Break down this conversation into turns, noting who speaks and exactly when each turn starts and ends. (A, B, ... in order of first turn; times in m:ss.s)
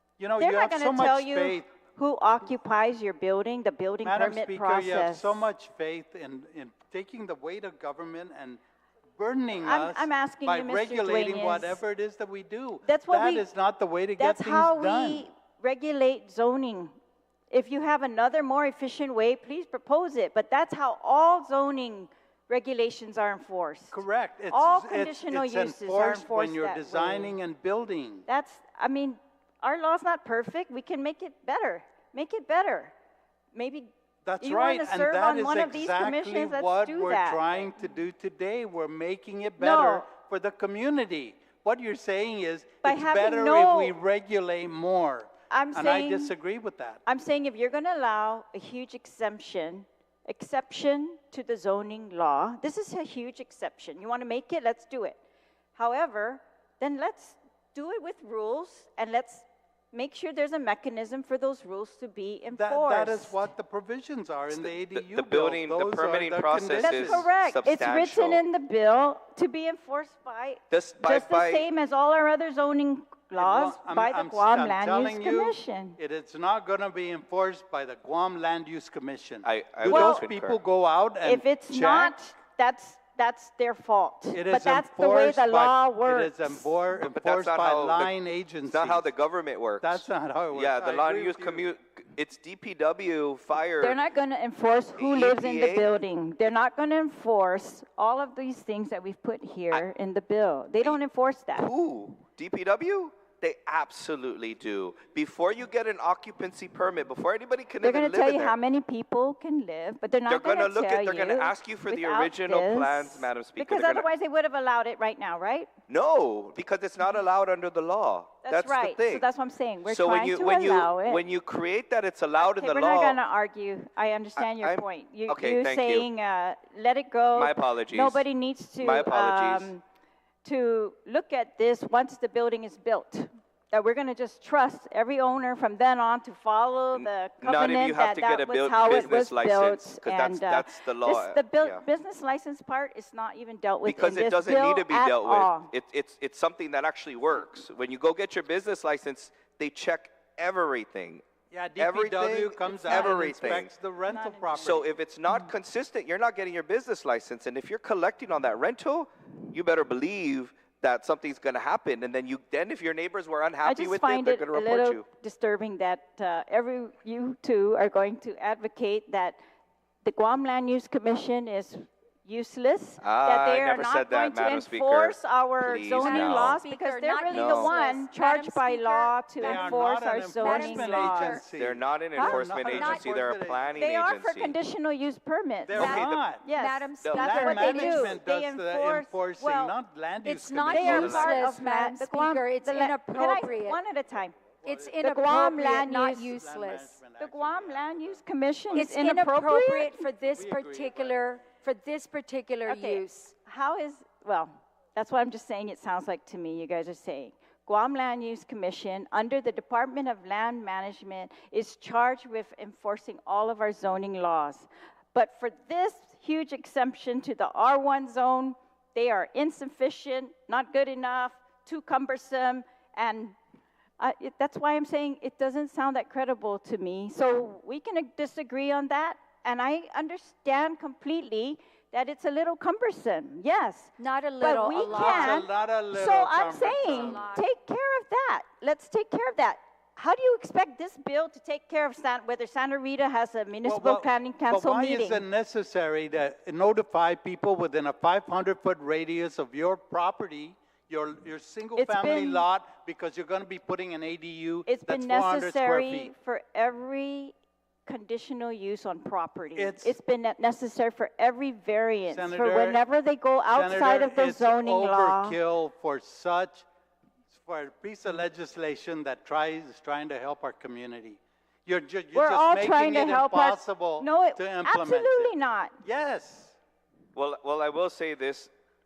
0:00.2-0:01.7 A
0:00.4-0:05.4 B
0:04.0-0:08.6 A
0:09.2-0:15.3 A
0:09.6-0:11.8 B
0:12.8-0:13.5 B
0:14.2-0:16.9 B
0:17.5-0:24.0 B
0:23.9-0:28.2 A
0:24.5-0:27.3 B
0:28.3-0:32.9 B
0:33.5-0:37.5 B
0:34.2-0:47.0 A
0:39.6-0:40.0 B
0:42.8-0:43.9 B
0:45.5-0:46.3 B
0:47.0-0:55.2 B
0:55.7-1:03.5 B
1:02.5-1:07.3 A
1:04.5-1:08.4 C
1:06.8-1:16.0 B
1:10.7-1:11.7 C
1:13.4-1:22.1 A
1:19.4-1:20.6 C
1:19.8-1:20.3 B
1:21.2-1:26.6 B
1:24.3-1:29.1 A
1:26.9-1:28.1 C
1:28.6-1:34.0 C
1:29.8-1:31.7 A
1:33.8-1:41.7 B
1:35.0-1:36.0 C
1:41.6-1:48.6 C
1:47.8-1:55.7 B
1:50.3-1:54.1 C
1:55.9-1:59.3 C
1:58.4-2:01.2 B
1:59.8-2:03.2 C
2:02.4-2:09.8 B
2:04.4-2:06.1 C
2:07.3-2:08.2 C
2:08.8-2:09.7 C
2:10.4-2:25.7 B
2:16.9-2:21.8 C
2:23.8-2:31.2 C
2:31.5-2:34.8 A
2:31.8-2:33.7 C
2:32.9-2:33.2 B
2:34.1-2:34.8 B
2:34.5-2:45.0 C
2:43.6-2:49.4 B
2:50.0-3:01.4 B
2:53.0-2:56.6 C
2:55.9-2:59.8 D
2:57.3-2:57.7 C
2:59.4-3:03.8 A
3:00.4-3:01.4 D
3:01.5-3:04.6 C
3:02.2-3:03.1 D
3:03.8-3:09.8 B
3:05.6-3:06.4 A
3:05.7-3:06.4 C
3:05.8-3:08.2 D
3:07.0-3:07.3 C
3:07.1-3:11.3 A
3:10.2-3:13.8 D
3:10.7-3:14.4 B
3:10.9-3:11.4 C
3:14.6-3:15.0 A
3:14.6-3:17.0 D
3:15.0-3:16.3 B
3:16.1-3:18.9 A
3:17.2-3:20.0 B
3:18.7-3:23.3 D
3:20.2-3:21.4 A
3:22.6-3:43.4 B
3:44.0-4:05.2 B
3:54.0-3:55.4 D
3:54.8-3:57.3 A
3:56.8-3:57.4 D
4:03.6-4:16.1 A
4:11.8-4:12.4 B
4:14.6-4:17.3 B
4:17.8-4:25.4 B
4:19.5-4:19.9 A
4:22.1-4:22.8 A
4:23.5-4:26.6 A
4:27.3-4:35.3 A
4:32.1-4:35.7 B
4:35.8-4:36.6 A
4:37.1-4:38.5 C